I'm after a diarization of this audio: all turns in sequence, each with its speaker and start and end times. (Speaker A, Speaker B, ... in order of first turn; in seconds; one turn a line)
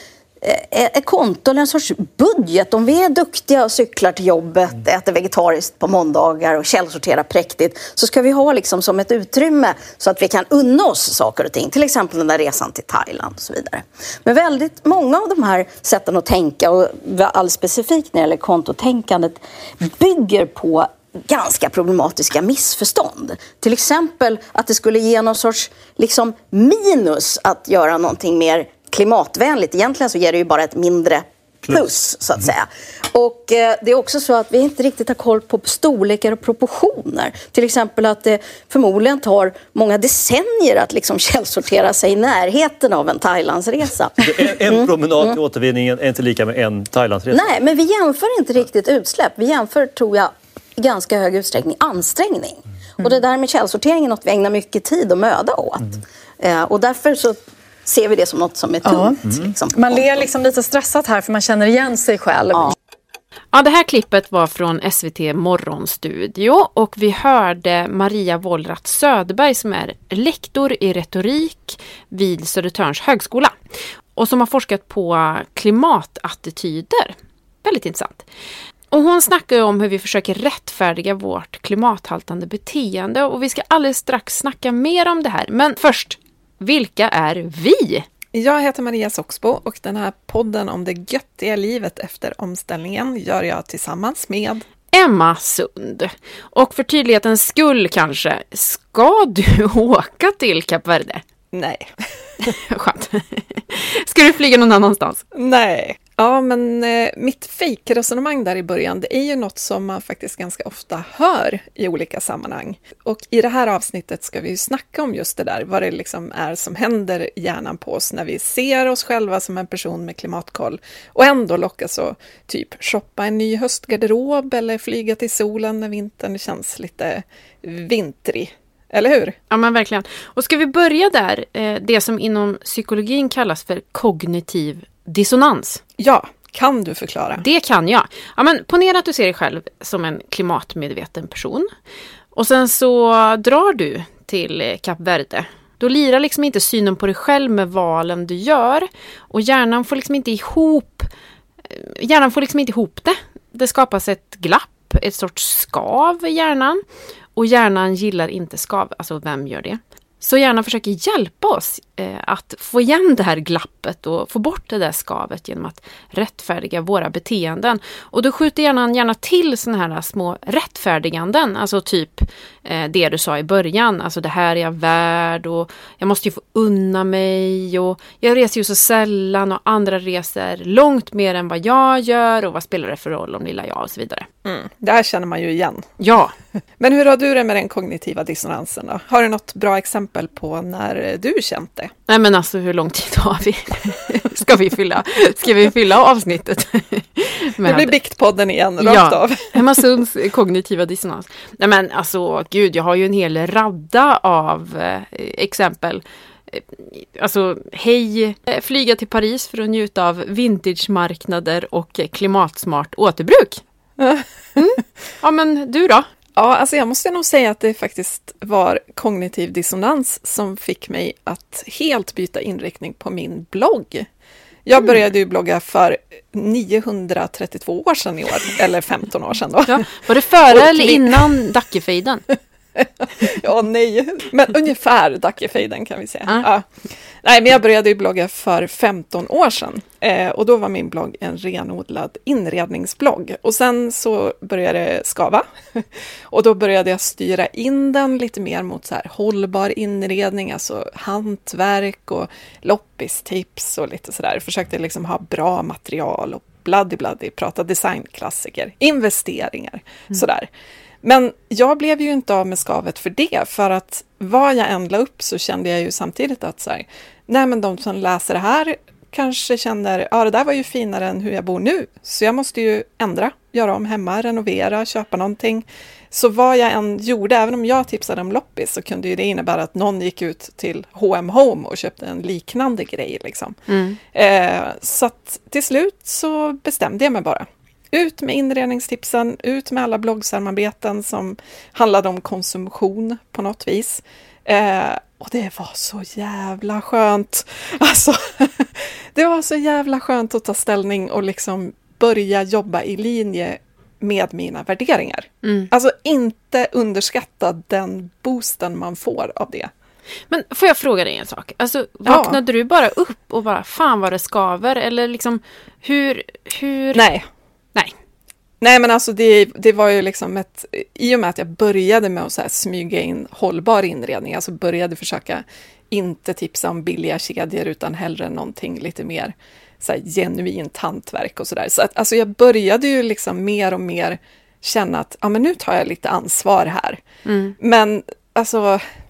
Speaker A: 0.4-45.4
Speaker B: 44.2-47.5
Speaker A: 47.3-60.2
Speaker C: 58.8-62.7
Speaker D: 63.5-73.5
Speaker D: 74.2-78.2
Speaker D: 78.9-88.1
Speaker E: 88.3-94.6
Speaker D: 94.9-101.2
Speaker E: 101.5-101.9
Speaker D: 102.4-105.2
Speaker E: 105.3-129.3
Speaker D: 129.5-135.8
Speaker E: 136.0-137.4
Speaker D: 137.4-141.7
Speaker D: 142.3-151.1
Speaker D: 151.7-156.8
Speaker D: 157.3-184.3
Speaker E: 184.4-185.9
Speaker D: 186.0-186.3
Speaker E: 186.8-191.9
Speaker D: 192.1-197.9
Speaker E: 197.6-199.8
Speaker D: 198.8-213.6
Speaker E: 214.0-214.2
Speaker D: 214.6-216.1
Speaker E: 216.3-224.1
Speaker E: 224.6-229.9
Speaker D: 229.6-232.2
Speaker E: 230.5-231.2
Speaker E: 232.8-260.5
Speaker E: 261.0-283.6
Speaker D: 283.7-284.0
Speaker E: 284.1-309.7
Speaker D: 305.4-305.7
Speaker D: 310.3-317.0
Speaker E: 312.1-312.4
Speaker E: 316.9-317.2
Speaker E: 318.6-337.0
Speaker D: 337.2-337.6
Speaker E: 337.6-338.8